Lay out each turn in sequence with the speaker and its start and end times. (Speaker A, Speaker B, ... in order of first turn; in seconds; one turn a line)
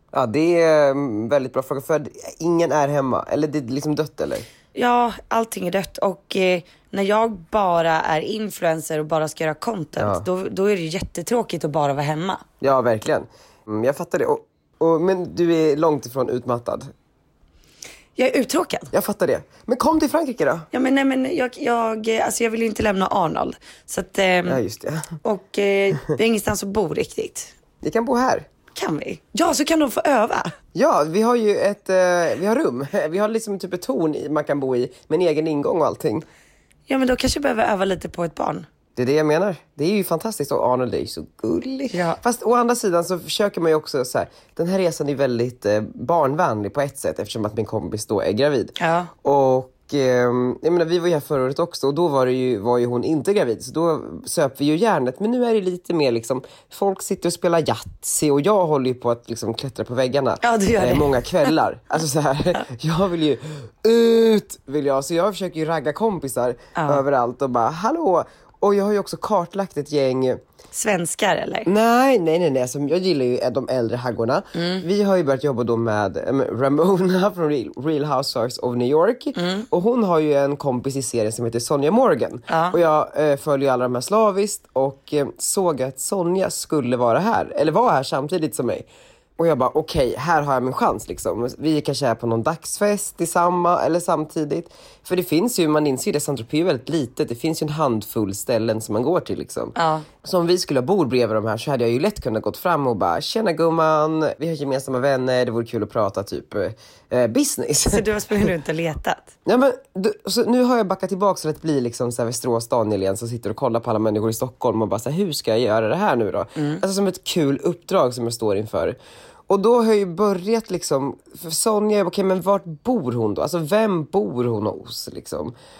Speaker A: 0.1-4.5
Speaker B: 4.7-12.4
Speaker A: 10.0-10.2
Speaker A: 12.6-16.9
Speaker B: 18.1-18.9
Speaker A: 18.9-20.7
Speaker B: 20.7-24.6
Speaker A: 24.5-25.2
Speaker B: 25.2-27.5
Speaker A: 27.8-28.5
Speaker B: 28.7-30.5
Speaker A: 30.7-36.2
Speaker B: 36.9-38.6
Speaker A: 39.0-70.4
Speaker B: 41.9-42.2
Speaker B: 48.8-49.1
Speaker B: 60.4-61.5
Speaker B: 66.8-67.0
Speaker B: 70.7-71.7
Speaker A: 71.7-88.9
Speaker B: 74.5-74.8
Speaker B: 79.3-79.7
Speaker B: 82.5-82.8
Speaker A: 89.4-108.1
Speaker B: 99.8-100.1
Speaker B: 107.9-109.3
Speaker A: 109.5-119.0
Speaker B: 116.5-116.8
Speaker A: 119.5-125.5